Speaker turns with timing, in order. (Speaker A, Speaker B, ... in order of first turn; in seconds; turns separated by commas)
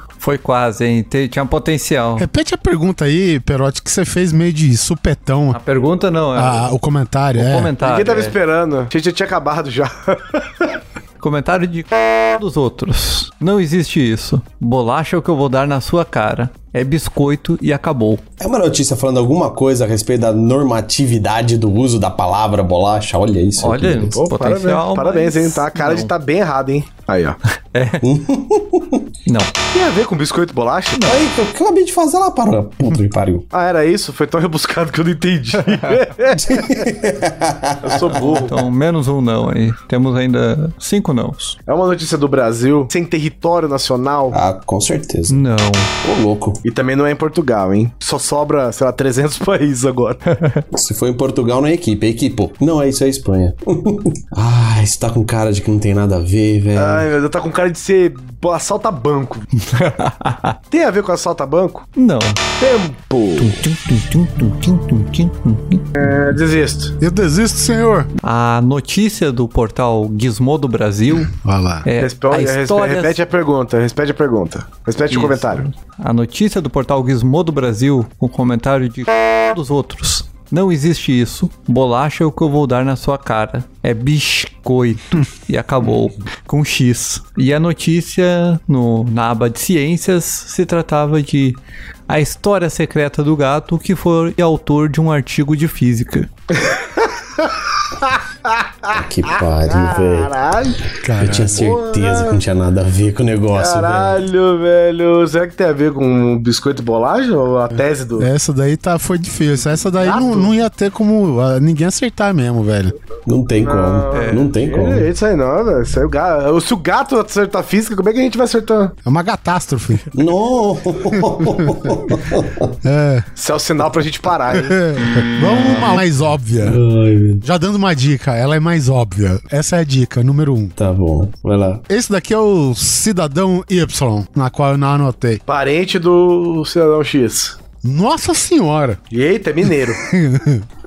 Speaker A: 0.2-2.3, Speaker B: 2.2-5.6, Speaker A: 5.5-6.7, Speaker B: 6.3-7.7, Speaker A: 7.3-8.3, Speaker C: 7.8-10.7, Speaker A: 11.2-18.2, Speaker D: 18.4-24.2, Speaker A: 23.6-26.1, Speaker C: 24.1-27.4, Speaker A: 27.7-28.1, Speaker D: 28.0-29.1, Speaker A: 29.2-29.5, Speaker C: 29.7-31.0, Speaker A: 30.9-31.2, Speaker D: 31.0-33.5, Speaker C: 33.5-36.5, Speaker A: 35.7-36.0, Speaker D: 36.3-38.4, Speaker C: 37.8-38.5, Speaker A: 38.1-41.6, Speaker C: 41.7-44.4, Speaker D: 44.3-45.4, Speaker A: 45.3-45.9, Speaker D: 46.0-46.6, Speaker C: 46.6-50.2, Speaker A: 50.3-50.6, Speaker D: 50.7-57.1, Speaker C: 56.7-59.6, Speaker A: 59.8-60.5, Speaker C: 60.7-61.9, Speaker A: 62.0-62.4, Speaker C: 62.6-63.6, Speaker A: 63.4-65.8, Speaker C: 66.0-67.0, Speaker B: 67.0-68.1, Speaker A: 68.2-71.3, Speaker B: 71.2-71.9, Speaker A: 71.8-73.2, Speaker C: 72.0-75.6, Speaker A: 75.1-96.3, Speaker C: 96.5-100.8, Speaker D: 98.9-100.3, Speaker B: 101.0-101.7, Speaker D: 101.2-104.2, Speaker C: 101.5-102.4, Speaker C: 103.5-108.3, Speaker B: 108.2-113.0, Speaker C: 110.0-110.5, Speaker D: 113.2-115.1, Speaker C: 113.6-118.9, Speaker A: 114.1-114.5, Speaker B: 119.0-120.0, Speaker D: 120.1-122.7, Speaker B: 121.1-121.9, Speaker B: 122.8-123.3, Speaker C: 123.3-124.8, Speaker B: 124.5-126.8, Speaker A: 125.2-126.0, Speaker D: 126.6-127.4, Speaker B: 127.4-130.8, Speaker D: 130.8-131.8, Speaker B: 131.9-135.4, Speaker C: 135.5-137.6, Speaker B: 137.8-139.0, Speaker C: 139.1-140.0, Speaker B: 140.0-140.6